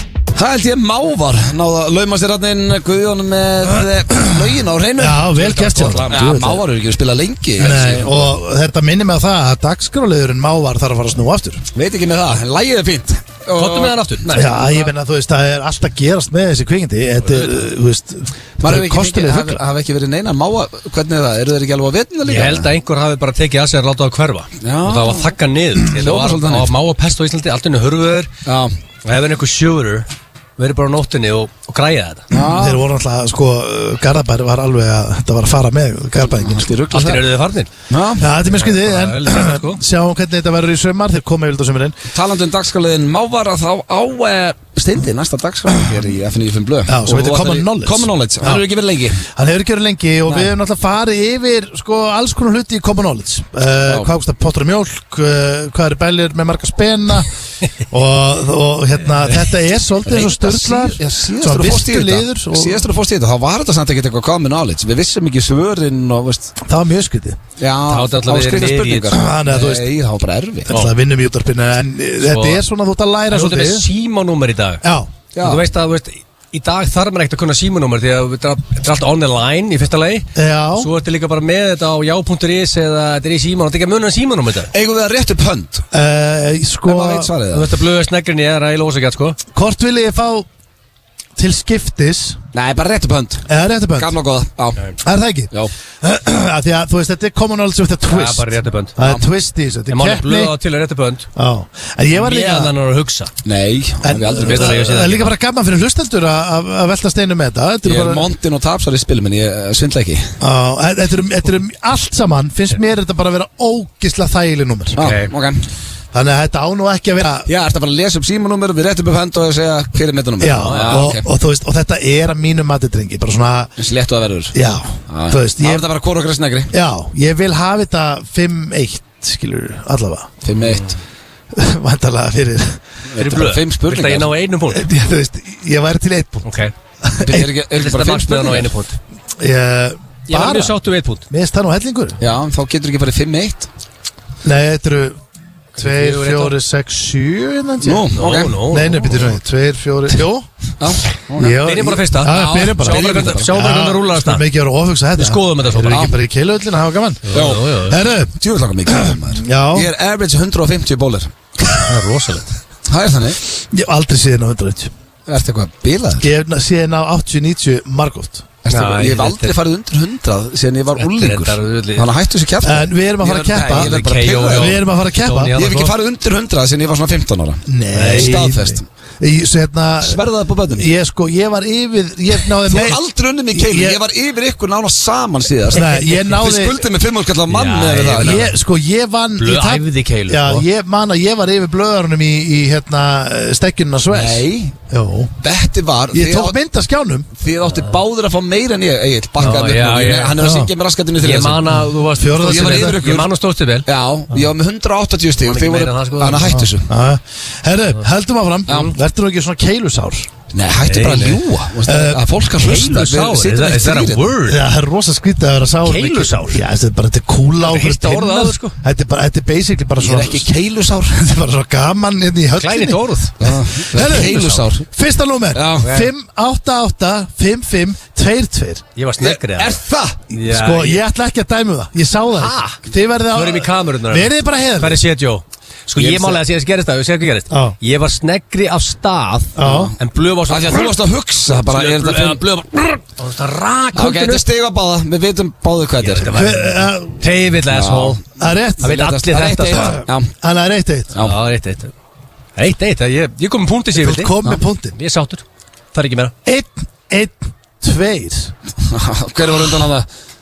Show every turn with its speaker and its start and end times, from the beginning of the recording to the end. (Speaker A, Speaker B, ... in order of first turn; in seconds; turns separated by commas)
Speaker A: 0.3-8.3, Speaker B: 4.1-6.6, Speaker C: 5.9-6.1, Speaker B: 7.6-11.6, Speaker A: 11.7-14.0, Speaker C: 13.5-14.9, Speaker B: 14.3-19.6, Speaker A: 18.6-22.7, Speaker C: 22.2-28.3, Speaker A: 24.6-25.3, Speaker A: 25.9-26.7, Speaker A: 28.4-28.8, Speaker C: 29.0-32.3, Speaker A: 32.3-32.8, Speaker B: 32.5-36.7, Speaker A: 36.2-37.3, Speaker C: 36.9-37.7, Speaker A: 37.9-38.3, Speaker B: 38.2-42.0, Speaker C: 38.5-39.8, Speaker A: 42.1-49.2, Speaker B: 46.9-48.6, Speaker B: 49.3-57.3, Speaker B: 57.9-62.9, Speaker A: 60.0-66.5, Speaker B: 66.6-67.4, Speaker A: 67.6-70.7, Speaker C: 67.9-69.1, Speaker B: 69.1-69.9, Speaker B: 70.7-73.9, Speaker C: 72.2-72.6, Speaker C: 73.3-74.8, Speaker B: 74.8-75.1, Speaker A: 75.3-75.7, Speaker C: 75.4-84.7, Speaker B: 80.3-80.9, Speaker A: 84.7-85.9, Speaker B: 85.9-87.3, Speaker A: 86.9-87.7, Speaker C: 87.5-89.4, Speaker B: 89.5-90.5, Speaker B: 91.4-92.4, Speaker A: 92.5-93.5, Speaker B: 93.5-94.1, Speaker A: 94.0-94.8, Speaker B: 95.0-95.5, Speaker B: 96.0-100.5, Speaker C: 98.1-98.9, Speaker C: 99.9-101.3, Speaker B: 101.4-102.7, Speaker C: 102.1-103.3, Speaker A: 103.4-104.8, Speaker B: 104.0-108.3, Speaker C: 104.3-105.3, Speaker A: 107.8-110.3, Speaker B: 110.4-115.0, Speaker C: 115.0-115.3, Speaker A: 115.0-115.7, Speaker B: 116.1-117.5, Speaker A: 117.5-121.2, Speaker B: 120.4-123.7, Speaker C: 120.5-121.1, Speaker A: 123.8-124.5, Speaker B: 124.5-125.9, Speaker A: 125.1-126.7, Speaker B: 126.7-130.3, Speaker A: 130.4-130.9, Speaker C: 130.6-130.9, Speaker B: 131.5-132.8, Speaker A: 133.1-134.3, Speaker C: 133.2-134.9, Speaker B: 134.7-136.5, Speaker C: 136.4-136.7, Speaker B: 137.0-137.5, Speaker A: 137.2-138.7, Speaker C: 137.7-139.0, Speaker B: 139.4-140.8, Speaker C: 140.3-141.2, Speaker B: 141.3-142.2, Speaker A: 142.2-143.7, Speaker B: 144.4-145.2, Speaker B: 145.7-148.1, Speaker C: 145.8-146.5, Speaker A: 147.8-148.6, Speaker C: 148.1-149.3, Speaker B: 148.7-150.5, Speaker A: 150.8-151.6, Speaker B: 151.3-158.3, Speaker C: 151.4-154.4, Speaker A: 152.3-153.6, Speaker C: 155.2-156.1, Speaker A: 155.9-156.2, Speaker C: 157.2-158.0, Speaker A: 157.3-157.7, Speaker A: 158.3-161.3, Speaker B: 158.9-159.9, Speaker C: 161.9-162.6, Speaker A: 162.9-163.4, Speaker B: 163.5-164.9, Speaker A: 165.3-166.3, Speaker B: 166.2-168.4, Speaker A: 168.6-174.8, Speaker C: 168.7-169.6, Speaker C: 171.0-172.1, Speaker B: 172.6-173.9, Speaker C: 173.2-175.9, Speaker B: 174.5-175.5, Speaker A: 175.6-178.9, Speaker B: 177.7-183.0, Speaker C: 177.9-178.4, Speaker A: 180.0-180.9, Speaker A: 182.6-188.4, Speaker B: 183.5-184.0, Speaker B: 185.7-186.9, Speaker C: 187.5-188.5, Speaker B: 188.2-195.3, Speaker C: 189.4-190.6, Speaker A: 194.1-194.8, Speaker A: 195.4-196.6, Speaker B: 196.1-197.3, Speaker A: 197.4-201.7, Speaker C: 199.4-200.4, Speaker B: 200.4-200.7, Speaker C: 201.2-203.9, Speaker B: 202.2-203.2, Speaker A: 202.4-203.3, Speaker A: 203.9-206.9, Speaker C: 205.4-206.6, Speaker B: 206.4-210.3, Speaker A: 208.7-208.9, Speaker A: 210.5-214.3, Speaker C: 210.8-211.4, Speaker B: 211.9-212.2, Speaker C: 212.6-214.6, Speaker B: 214.5-220.5, Speaker C: 215.8-216.6, Speaker C: 217.6-218.8, Speaker A: 220.0-221.2, Speaker B: 221.1-228.8, Speaker C: 222.6-223.4, Speaker A: 223.4-224.9, Speaker A: 225.5-225.9, Speaker C: 225.8-226.1, Speaker C: 228.9-229.8, Speaker A: 229.2-230.2, Speaker C: 230.3-231.0, Speaker B: 230.4-235.0, Speaker C: 232.3-232.8, Speaker C: 233.3-240.9, Speaker A: 235.9-236.4, Speaker B: 237.5-237.8, Speaker B: 239.6-239.9, Speaker A: 239.6-239.9, Speaker A: 240.5-242.4, Speaker C: 241.5-244.4, Speaker A: 243.9-246.4, Speaker C: 246.0-248.2, Speaker B: 246.3-247.3, Speaker A: 247.7-250.3, Speaker B: 248.4-248.9, Speaker C: 248.8-250.0, Speaker B: 249.7-251.1, Speaker C: 251.2-251.9, Speaker C: 252.6-254.3, Speaker B: 253.9-254.9, Speaker C: 254.9-256.3, Speaker B: 256.4-258.5, Speaker A: 258.8-260.1